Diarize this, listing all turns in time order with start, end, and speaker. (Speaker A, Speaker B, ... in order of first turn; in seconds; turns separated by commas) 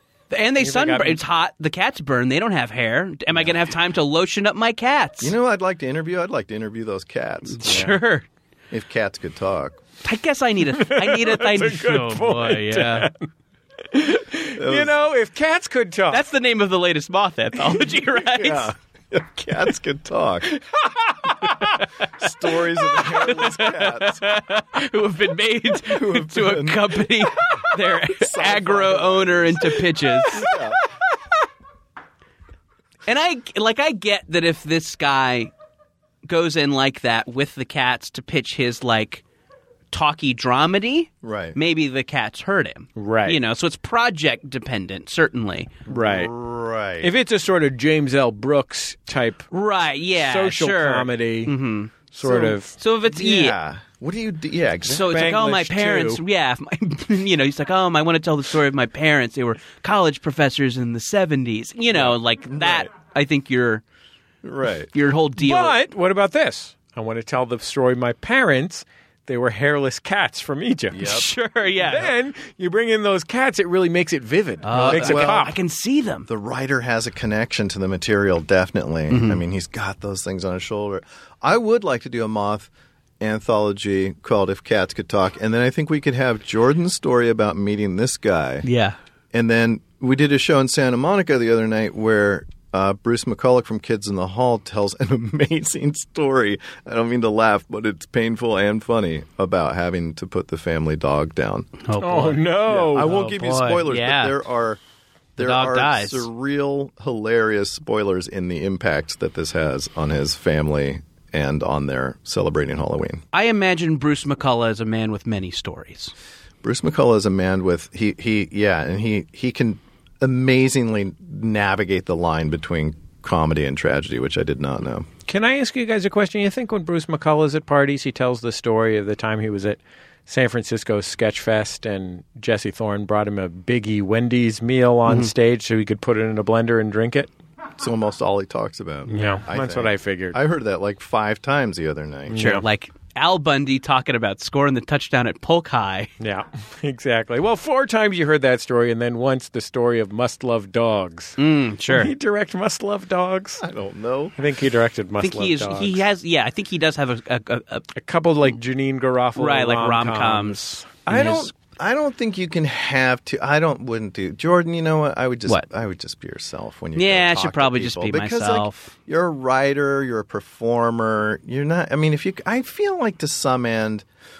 Speaker A: 0.3-5.3, Speaker B: 0.6-1.2, Speaker C: 5.2-8.0, Speaker A: 7.5-8.2, Speaker C: 8.7-9.8, Speaker A: 10.0-13.1, Speaker B: 10.8-13.2, Speaker B: 13.9-16.2, Speaker C: 14.6-14.9, Speaker A: 16.1-18.7, Speaker C: 18.3-20.6, Speaker B: 20.6-21.8, Speaker C: 22.2-24.4, Speaker A: 22.9-30.5, Speaker C: 25.8-30.8, Speaker A: 33.1-35.5, Speaker A: 36.2-39.2, Speaker A: 39.9-45.7, Speaker C: 41.2-41.6, Speaker B: 43.0-43.4, Speaker C: 45.9-47.1, Speaker B: 45.9-46.3, Speaker B: 47.0-49.5, Speaker A: 49.5-51.9, Speaker B: 50.1-51.5, Speaker B: 52.1-52.8, Speaker C: 52.2-55.2, Speaker A: 52.7-53.5, Speaker A: 54.9-63.8, Speaker B: 54.9-56.2, Speaker C: 61.9-62.9, Speaker C: 64.4-64.9, Speaker A: 64.9-65.8, Speaker B: 65.4-71.2, Speaker C: 70.9-71.2, Speaker A: 71.0-72.1, Speaker B: 71.8-75.5, Speaker A: 74.6-76.3, Speaker C: 74.7-75.5, Speaker C: 76.3-88.7, Speaker A: 79.1-79.4, Speaker A: 88.6-89.0, Speaker C: 89.3-101.7, Speaker A: 101.8-102.4, Speaker B: 102.0-103.2, Speaker C: 102.7-104.8, Speaker A: 102.9-104.4, Speaker C: 105.4-113.2, Speaker A: 105.4-106.3, Speaker A: 113.3-116.1, Speaker C: 116.6-125.1, Speaker B: 125.3-137.3, Speaker C: 137.8-142.4, Speaker B: 139.1-140.4, Speaker B: 142.3-142.6, Speaker A: 142.3-146.1, Speaker B: 146.2-151.4, Speaker A: 151.4-152.1, Speaker B: 151.9-153.6, Speaker C: 153.6-154.3, Speaker B: 154.4-156.0, Speaker A: 155.2-157.9, Speaker B: 157.9-160.9, Speaker A: 159.3-161.5, Speaker C: 161.1-174.0, Speaker A: 166.9-168.9